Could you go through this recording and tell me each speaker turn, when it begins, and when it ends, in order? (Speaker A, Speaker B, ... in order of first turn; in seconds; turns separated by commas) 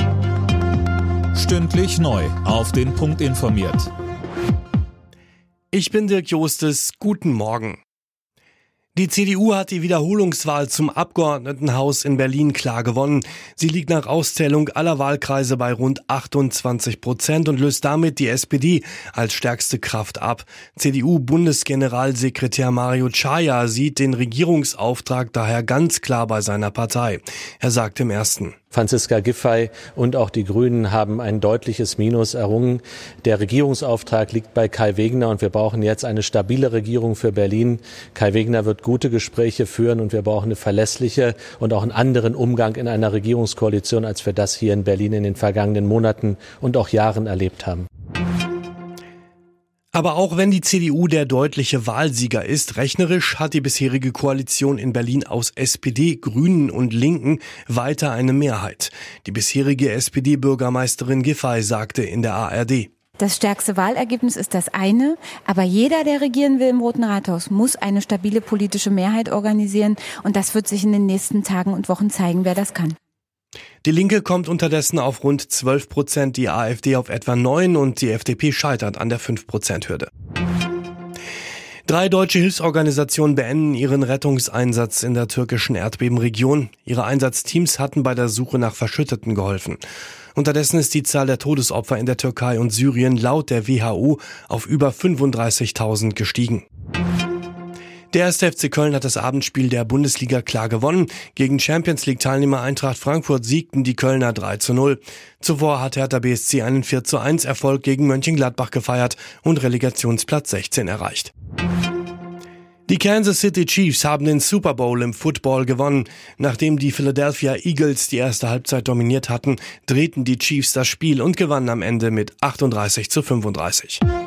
Speaker A: 1.3-3.9, Speaker B: 5.7-7.8, Speaker B: 8.9-28.6, Speaker C: 28.7-47.9, Speaker B: 49.9-62.9, Speaker D: 63.2-73.0, Speaker B: 73.8-80.1, Speaker B: 81.9-89.8, Speaker B: 90.3-96.7, Speaker B: 98.1-111.3, Speaker B: 112.9-124.0